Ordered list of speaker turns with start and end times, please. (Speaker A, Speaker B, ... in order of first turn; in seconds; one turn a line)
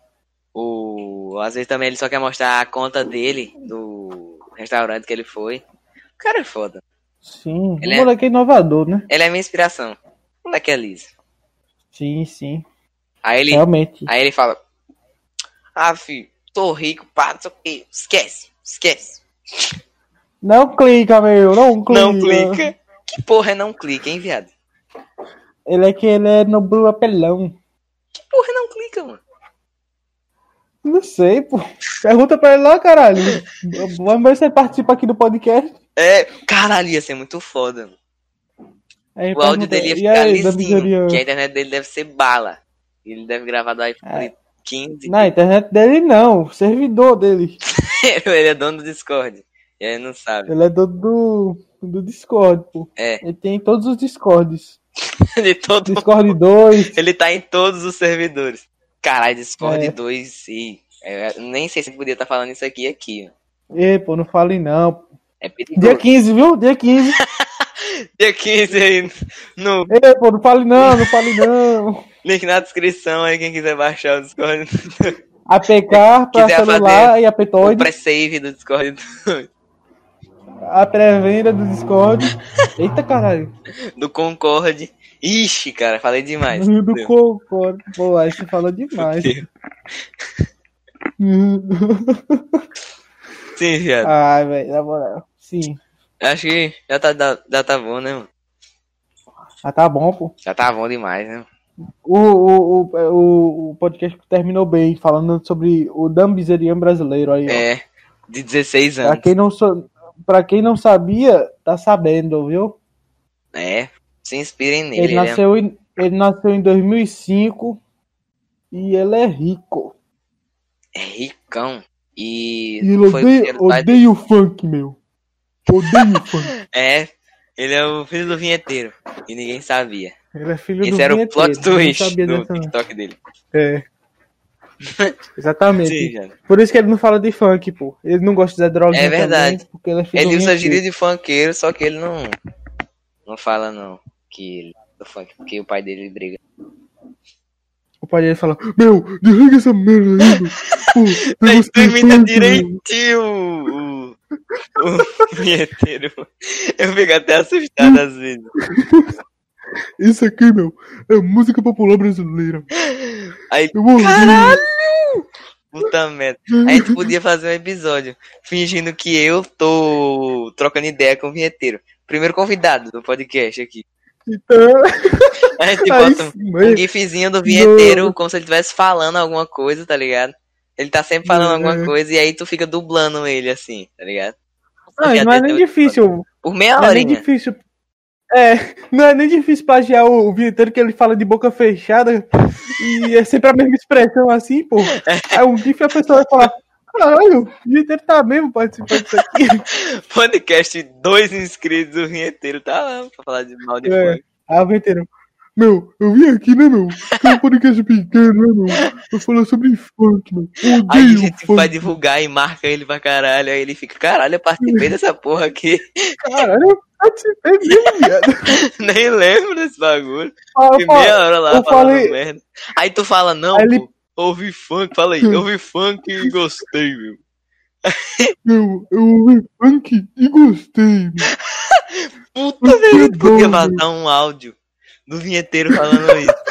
Speaker A: 0.6-5.6
Speaker A: 6.2-6.8
Speaker B: 7.2-9.1
Speaker A: 7.8-8.1
Speaker A: 9.1-11.1
Speaker B: 11.9-12.7
Speaker A: 13.2-14.6
Speaker B: 13.5-14.1
Speaker A: 15.8-19.2
Speaker B: 20.4-22.6
Speaker A: 21.9-24.5
Speaker B: 25.7-27.6
Speaker A: 28.3-29.2
Speaker B: 30.8-35.8
Speaker A: 36.0-38.0
Speaker B: 39.2-41.2
Speaker A: 39.4-45.3
Speaker B: 44.0-44.3
Speaker B: 45.1-47.6
Speaker A: 47.8-50.5
Speaker B: 50.5-54.8
Speaker A: 53.0-53.2
Speaker A: 55.4-56.4
Speaker B: 55.9-57.0
Speaker A: 56.9-63.3
Speaker B: 59.6-60.0
Speaker B: 63.7-65.0
Speaker A: 65.4-66.1
Speaker B: 65.8-67.2
Speaker A: 67.2-69.9
Speaker B: 69.9-72.0
Speaker A: 70.8-71.4
Speaker A: 72.2-75.2
Speaker B: 75.5-77.9
Speaker A: 75.9-79.5
Speaker B: 80.7-83.5
Speaker A: 84.0-87.1
Speaker B: 86.5-89.4
Speaker A: 88.9-89.5
Speaker B: 91.2-92.6
Speaker A: 93.6-94.1
Speaker B: 94.0-95.8
Speaker A: 96.2-98.3
Speaker B: 99.6-100.3
Speaker A: 100.5-101.5
Speaker B: 102.0-107.7
Speaker A: 107.5-109.3
Speaker B: 109.0-112.8
Speaker A: 113.5-115.4
Speaker B: 115.0-117.8
Speaker B: 118.7-119.9
Speaker A: 121.0-124.0
Speaker B: 122.8-125.0
Speaker B: 125.7-126.5
Speaker A: 125.9-130.2
Speaker B: 130.3-132.7
Speaker A: 130.8-133.2
Speaker B: 133.5-133.8
Speaker A: 134.9-135.1
Speaker B: 135.4-140.8
Speaker A: 135.8-136.3
Speaker A: 138.9-139.6
Speaker A: 140.2-142.3
Speaker A: 143.3-146.4
Speaker B: 148.0-152.7
Speaker A: 150.7-154.2
Speaker A: 154.8-158.5
Speaker B: 154.8-155.2
Speaker B: 158.7-159.1
Speaker B: 160.0-162.7
Speaker A: 162.8-165.1
Speaker B: 163.8-164.7
Speaker A: 165.7-173.8
Speaker B: 174.3-176.8
Speaker A: 175.6-184.3
Speaker B: 177.4-178.1
Speaker B: 181.2-181.9
Speaker B: 185.0-186.2
Speaker A: 185.0-187.2
Speaker B: 186.8-187.6
Speaker B: 188.3-199.6
Speaker A: 195.0-195.4
Speaker A: 199.7-204.2
Speaker B: 203.8-211.7
Speaker A: 207.1-207.3
Speaker A: 210.9-216.4
Speaker B: 214.6-214.9
Speaker B: 216.2-218.6
Speaker A: 217.7-217.9
Speaker A: 218.6-227.2
Speaker B: 220.6-222.2
Speaker B: 223.5-223.8
Speaker A: 227.8-228.3
Speaker B: 228.4-231.3
Speaker A: 231.3-234.6
Speaker B: 232.6-233.8
Speaker A: 235.1-236.4
Speaker B: 235.7-236.2